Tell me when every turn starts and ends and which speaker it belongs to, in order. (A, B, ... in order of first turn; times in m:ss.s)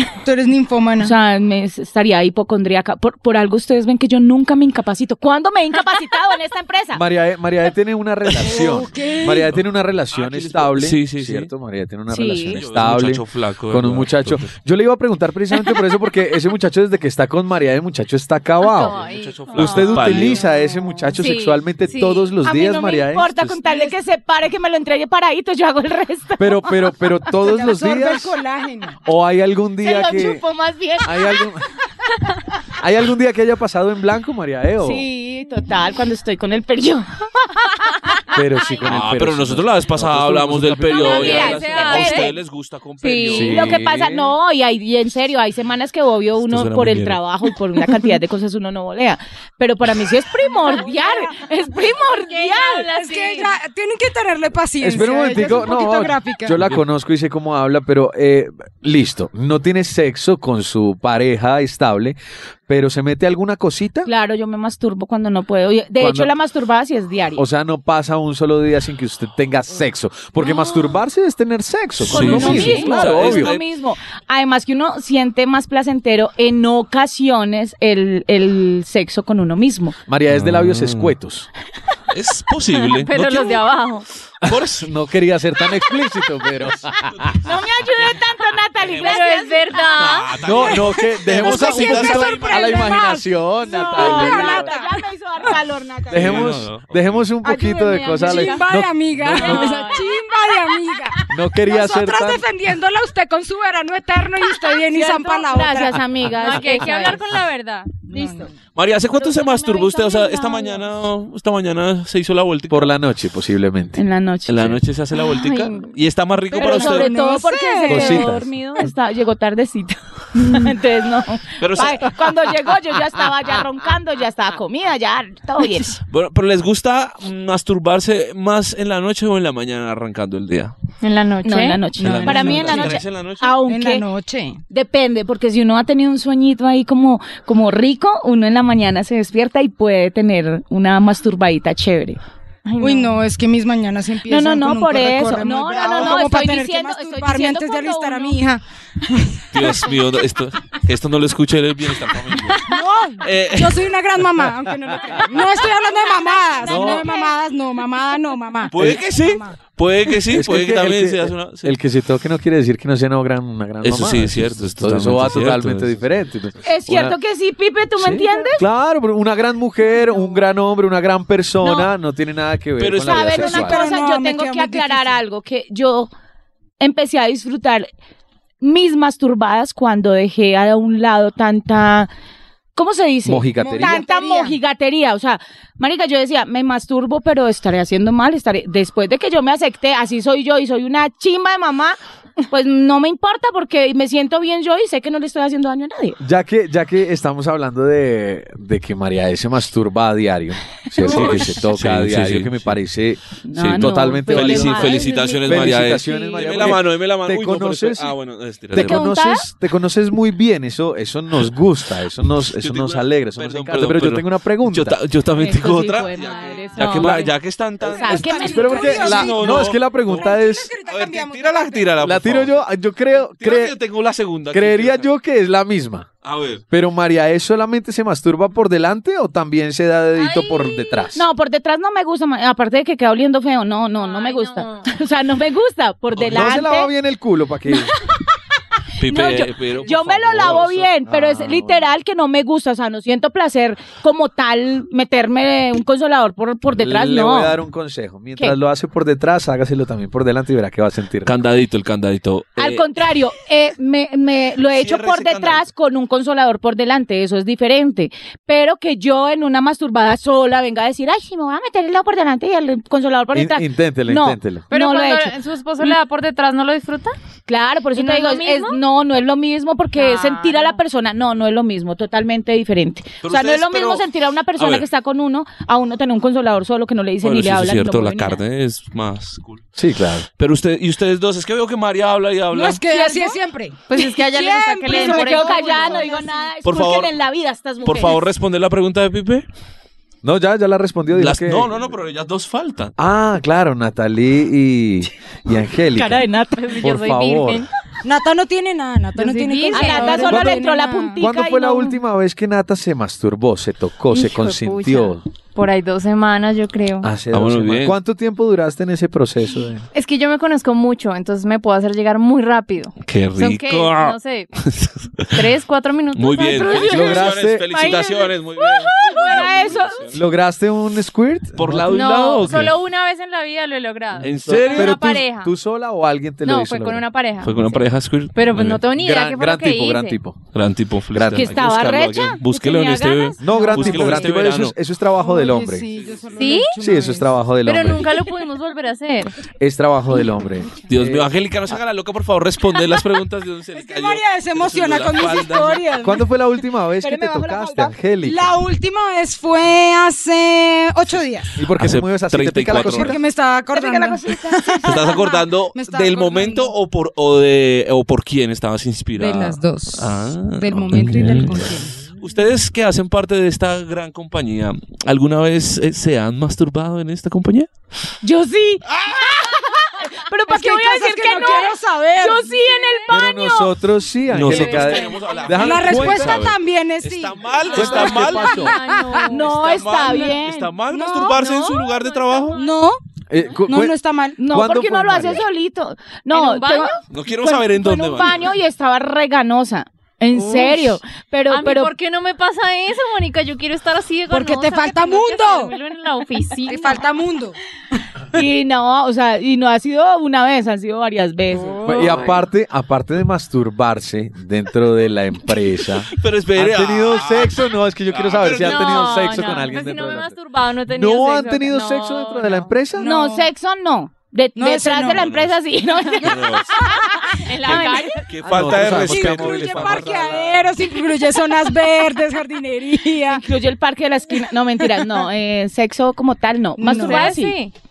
0:00.2-0:01.1 A
0:01.0-0:07.0 B
0:06.9-0:23.3 C
0:08.2-0:09.6 D
0:08.4-0:09.5 A
0:10.1-0:11.5 D
0:12.1-0:12.6 B
0:12.5-0:14.5 D
0:18.6-0:22.3 E
0:18.8-0:20.4 D
0:22.4-0:26.9 B
0:26.4-0:28.3 C
0:27.3-0:29.0 A
0:29.0-0:30.4 C
0:29.8-0:31.5 B
0:31.0-0:31.7 C
0:32.8-0:35.0 C
0:34.8-0:37.6 B
0:38.3-0:41.6 C
0:38.8-0:43.7 D
0:40.9-0:42.3 B
0:41.0-0:42.4 E
0:43.0-0:43.5 E
0:43.2-0:44.3 C
0:43.4-0:53.5 B
0:46.4-0:47.2 D
0:50.4-0:51.3 A
0:52.4-0:53.4 E
0:52.7-0:56.5 A
0:54.8-1:02.2 C
0:56.5-0:56.8 D
1:02.7-1:04.1 C
1:04.0-1:07.4 B
1:06.0-1:06.3 C
1:07.4-1:13.5 C
1:10.4-1:10.7 B
1:12.0-1:13.6 D
1:12.1-1:20.0 B
1:12.3-1:12.9 E
1:20.1-1:21.5 C
1:20.3-1:21.1 D
1:22.1-1:23.6 D
1:22.8-1:24.0 E
1:24.4-1:24.9 D
1:24.4-1:27.4 C
1:27.0-1:28.1 D
1:27.4-1:30.2 B
1:28.8-1:29.2 D
1:29.0-1:30.4 E
1:29.9-1:33.0 D
1:30.4-1:34.7 C
1:30.9-1:35.6 A
1:33.6-1:36.5 B
1:36.1-1:39.8 C
1:36.1-1:37.2 D
1:37.4-1:38.6 B
1:38.1-1:46.0 A
1:39.4-1:40.2 E
1:39.4-1:40.0 B
1:41.3-1:42.4 C
1:44.6-1:47.2 B
1:46.3-1:48.0 E
1:48.1-1:48.5 B
1:48.1-1:48.5 A
1:48.7-1:52.9 D
1:49.1-1:50.8 B
1:52.7-1:54.0 C
1:54.0-1:54.7 B
1:54.5-1:57.1 D
1:55.3-1:55.8 E
1:56.5-2:06.0 B
1:56.5-1:58.3 A
1:57.8-1:58.9 C
2:01.6-2:02.1 D
2:06.1-2:10.7 D
2:11.0-2:12.7 E
2:11.4-2:14.0 B
2:12.0-2:13.6 D
2:12.0-2:12.5 C
2:12.1-2:13.0 A
2:13.7-2:14.6 A
2:14.7-2:22.2 B
2:22.6-2:23.2 E
2:22.8-2:29.9 A
2:24.2-2:28.4 B
2:29.5-2:34.0 D
2:32.6-2:39.5 A
2:36.2-2:37.4 B
2:36.6-2:37.1 C
2:38.7-2:41.8 D
2:40.3-2:47.2 C
2:43.8-2:46.0 D
2:46.6-2:48.6 B
2:48.0-2:53.8 C
2:51.6-2:51.9 B
2:52.8-2:53.3 D
2:53.0-2:56.1 B
2:53.3-2:55.2 A
2:56.8-2:57.9 B
2:58.6-3:02.1 B
3:02.8-3:12.0 B
3:03.2-3:04.0 C
3:03.6-3:04.6 A
3:12.5-3:16.2 B
3:16.2-3:28.2 C
3:20.9-3:21.4 B
3:21.0-3:22.8 D
3:23.4-3:26.8 B
3:23.6-3:29.1 D
3:28.7-3:35.0 C
3:28.7-3:29.5 B
3:32.5-3:45.1 D
3:35.3-3:37.3 B
3:36.9-3:37.3 C
3:37.8-3:39.3 B
3:38.0-3:42.0 A
3:38.1-3:40.7 C
3:42.0-3:43.7 C
3:44.5-3:46.1 C
3:46.2-3:46.6 D
3:46.7-3:51.2 C
3:50.1-3:51.1 E
3:51.1-3:56.9 B
3:54.0-3:54.9 E
3:56.2-3:57.9 C
3:59.0-4:00.9 D
3:59.0-4:07.6 B
4:01.0-4:01.9 C
4:06.8-4:11.4 C
4:11.2-4:12.8 D
4:12.6-4:26.0 B
4:14.7-4:15.6 D
4:23.3-4:24.7 C
4:24.7-4:27.1 E
4:27.5-4:38.4 B
4:27.9-4:28.8 E
4:30.0-4:30.8 E
4:33.2-4:34.8 D
4:37.2-4:39.6 D
4:39.8-4:40.2 C
4:40.4-4:42.8 D
4:42.5-4:46.3 A
4:42.9-4:43.3 E
4:43.9-4:46.2 E
4:44.9-4:48.2 B
4:46.6-4:47.1 D
4:47.8-4:49.4 D
4:50.2-4:51.7 C
4:51.1-4:52.9 D
4:53.0-4:56.2 C
4:55.9-4:56.8 B
4:56.6-4:57.7 E
4:56.8-4:57.6 C
4:58.0-5:01.2 A
4:59.1-5:00.4 E
4:59.7-5:02.0 B
5:00.3-5:00.6 C
5:01.2-5:05.2 C
5:04.1-5:07.1 E
5:07.0-5:09.8 C
5:07.3-5:08.0 D
5:09.9-5:14.5 E
5:13.0-5:15.4 D
5:15.3-5:17.3 E
5:16.1-5:20.2 D
5:16.5-5:17.0 B
5:16.8-5:17.9 C
5:17.7-5:20.0 B
5:19.0-5:19.6 E
5:20.1-5:22.6 C
5:21.6-5:22.8 D
5:21.9-5:25.5 E
5:24.2-5:25.0 D
5:24.2-5:27.0 C
5:26.4-5:27.8 E
5:27.4-5:28.8 D
5:28.3-5:30.2 E
5:28.9-5:30.4 C
5:30.5-5:34.8 D
5:31.1-5:31.6 C
5:31.3-5:34.3 B
5:33.4-5:35.8 C
5:35.2-5:37.4 A
5:35.9-5:36.3 D
5:36.3-5:36.8 E
5:36.8-5:38.1 C
5:37.6-5:39.4 E
5:39.6-5:41.3 C
5:40.9-5:45.8 D
5:43.7-5:46.3 A
5:46.0-5:48.6 C
5:47.0-5:47.9 B
5:48.2-5:51.6 A
5:51.6-5:53.2 C
5:51.8-5:53.2 D
5:52.7-5:56.7 A
5:53.7-5:55.0 B
5:54.8-6:07.7 D
5:59.2-6:02.0 A
6:08.2-6:13.7 B
6:08.9-6:09.3 D
6:10.5-6:12.5 A
6:12.6-6:13.2 E
6:13.1-6:16.4 C
6:14.3-6:18.7 D
6:14.5-6:15.6 E
6:15.5-6:19.2 A
6:17.7-6:18.8 C
6:17.7-6:19.6 E
6:19.3-6:20.7 B
6:19.4-6:22.6 D
6:20.9-6:21.4 A
6:21.3-6:22.8 E
6:22.5-6:23.0 A
6:23.3-6:25.4 C
6:23.6-6:24.4 A
6:24.4-6:31.9 B
6:26.3-6:27.0 E
6:27.1-6:28.5 D
6:30.4-6:30.9 E
6:31.5-6:37.1 E
6:34.3-6:35.7 A
6:36.7-6:37.6 A
6:38.3-6:41.8 B
6:41.5-6:42.4 E
6:41.8-6:50.4 C
6:46.1-6:49.4 D
6:48.5-6:52.7 E
6:50.9-6:53.1 C
6:53.0-6:53.5 A
6:53.0-6:58.2 B
6:54.6-6:55.2 A
6:55.1-6:55.6 D
6:56.2-6:56.7 D
6:56.8-6:57.0 A
6:57.4-6:58.3 E
6:57.6-7:00.7 D
6:58.4-7:00.5 C
6:58.6-7:03.4 A
7:03.3-7:07.6 B
7:06.8-7:07.3 A
7:06.9-7:07.7 E